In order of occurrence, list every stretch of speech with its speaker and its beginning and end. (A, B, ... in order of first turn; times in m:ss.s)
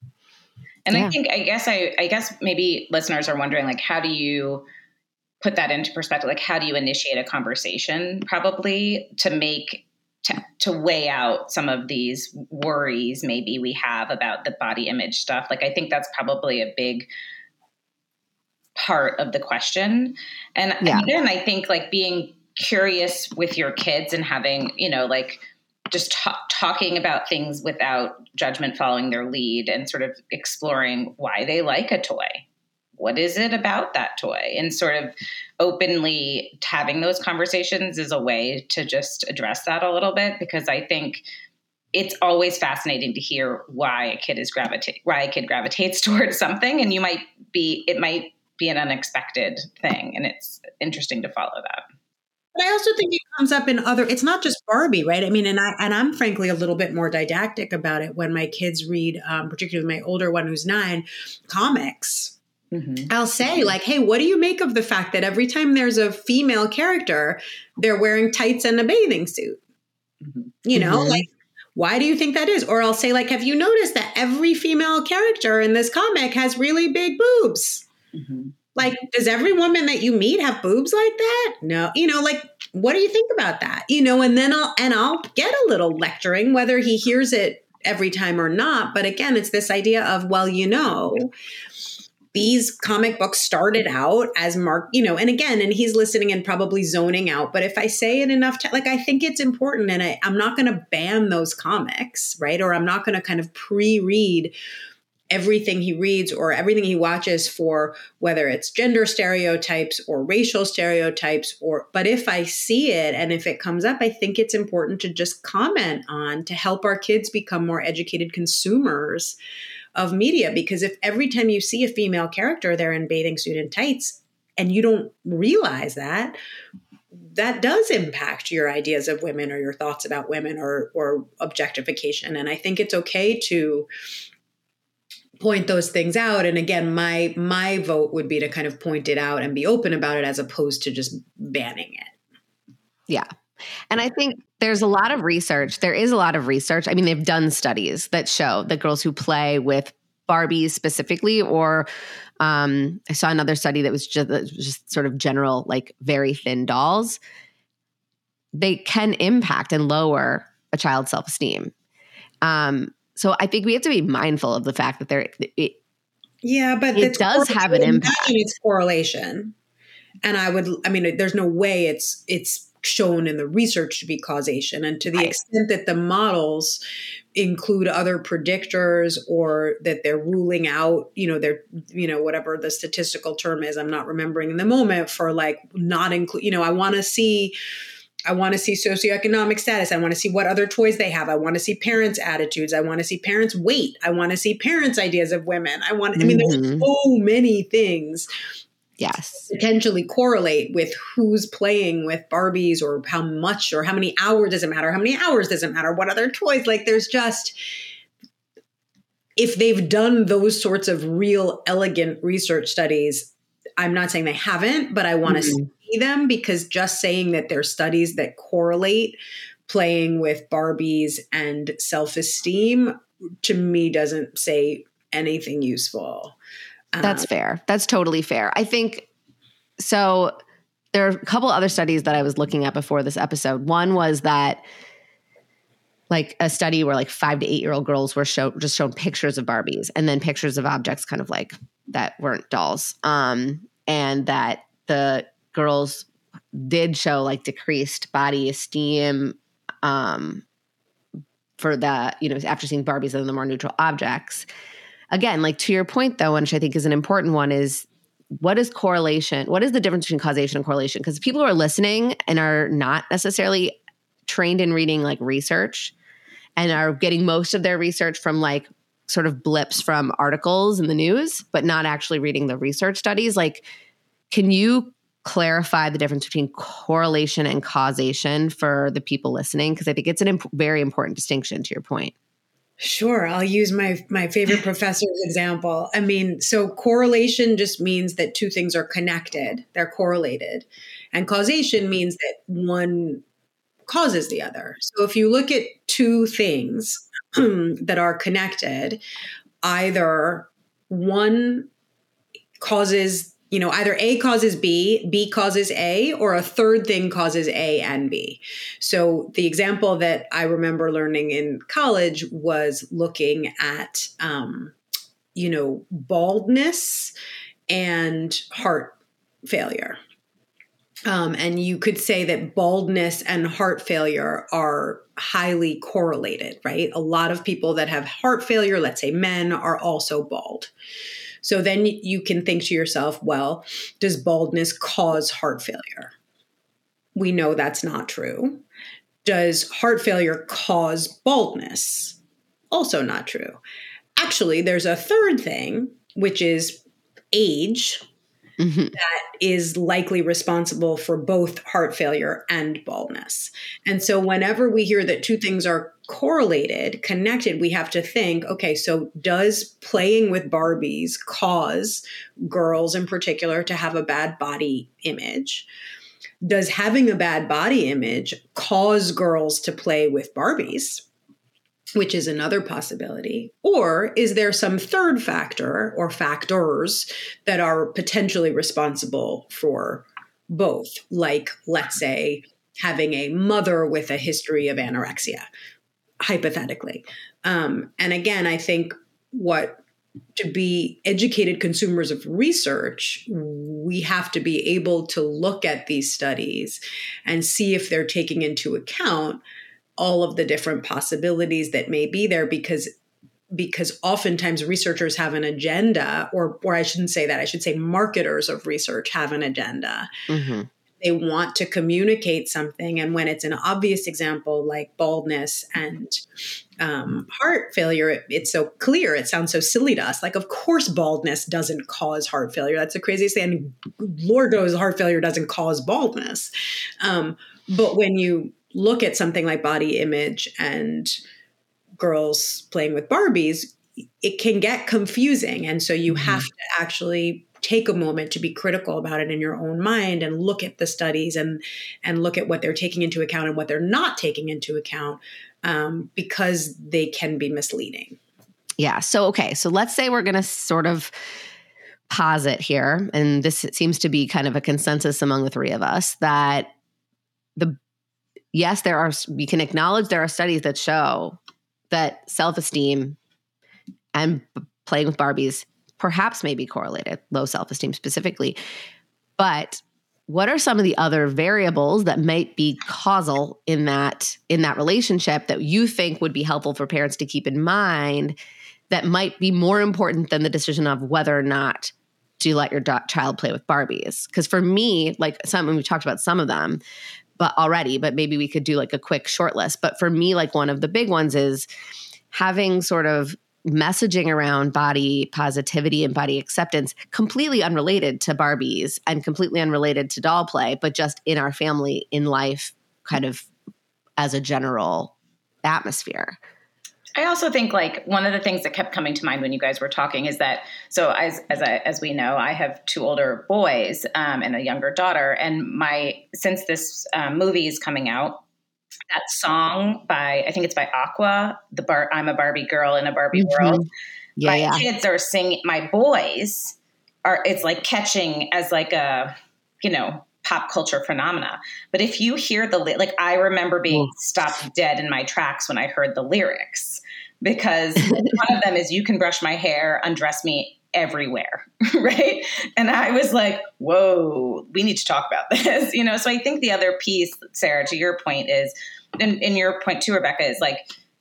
0:00.9-0:04.6 A
0:05.4-0:17.1 A
0:18.8-0:32.4 A
0:20.8-0:21.1 B
0:33.0-0:41.2 A
0:41.9-0:51.8 A
0:52.6-1:02.4 C
1:02.7-1:03.1 A
1:03.1-1:09.6 C
1:10.2-1:10.5 A
1:10.7-1:17.9 C
1:10.8-1:11.2 B
1:18.1-1:18.6 A
1:18.8-1:31.3 C
1:32.3-1:44.5 C
1:45.3-1:59.4 C
2:00.0-2:06.4 C
2:07.3-2:13.9 C
2:15.4-2:22.1 C
2:23.9-2:31.9 B
2:32.4-2:37.2 B
2:38.6-2:41.7 B
2:42.4-2:45.8 B
2:46.4-2:49.5 C
2:47.0-2:48.4 B
2:50.2-2:56.8 C
2:57.4-3:07.5 C
3:08.3-3:18.3 C
3:16.2-3:16.9 B
3:19.0-3:19.5 B
3:19.5-3:27.6 C
3:29.4-3:46.4 C
3:35.3-3:35.7 B
3:46.9-3:47.3 C
3:47.0-3:49.1 B
3:49.8-3:50.3 B
3:50.9-3:54.6 B
3:56.1-4:10.4 B
4:11.6-4:14.5 B
4:15.1-4:17.9 B
4:18.4-4:25.9 B
4:26.6-4:33.6 B
4:34.3-4:42.1 B
4:42.8-4:53.2 C
4:53.9-4:59.0 C
4:59.6-5:01.7 C
5:02.6-5:14.8 C
5:15.4-5:17.1 C
5:17.7-5:20.0 C
5:21.1-5:30.7 C
5:31.4-5:36.1 C
5:37.2-5:38.6 C
5:39.2-5:42.2 C
5:42.7-5:43.6 C
5:44.2-5:46.8 C
5:47.3-5:48.0 C
5:48.6-5:49.0 B
5:49.0-6:05.7 C
6:06.4-6:11.1 C
6:12.0-6:25.5 C
6:26.2-6:29.8 C
6:30.4-6:39.4 C
6:40.0-6:42.9 C
6:43.5-6:50.1 C
6:50.3-6:50.7 B
6:51.0-6:56.2 C
6:56.8-7:11.2 C
7:12.0-7:28.2 C
7:16.1-7:16.4 B
7:28.8-7:31.1 B
7:32.1-7:36.7 B
7:38.5-7:41.4 B
7:41.9-7:43.2 B
7:44.2-7:48.6 B
7:49.4-7:58.4 B
7:58.9-8:06.8 B
8:07.4-8:11.7 B
8:12.3-8:23.5 B
8:24.2-8:26.4 B
8:27.2-8:38.4 A
8:39.1-8:43.8 A
8:43.4-8:44.8 B
8:44.4-9:10.9 A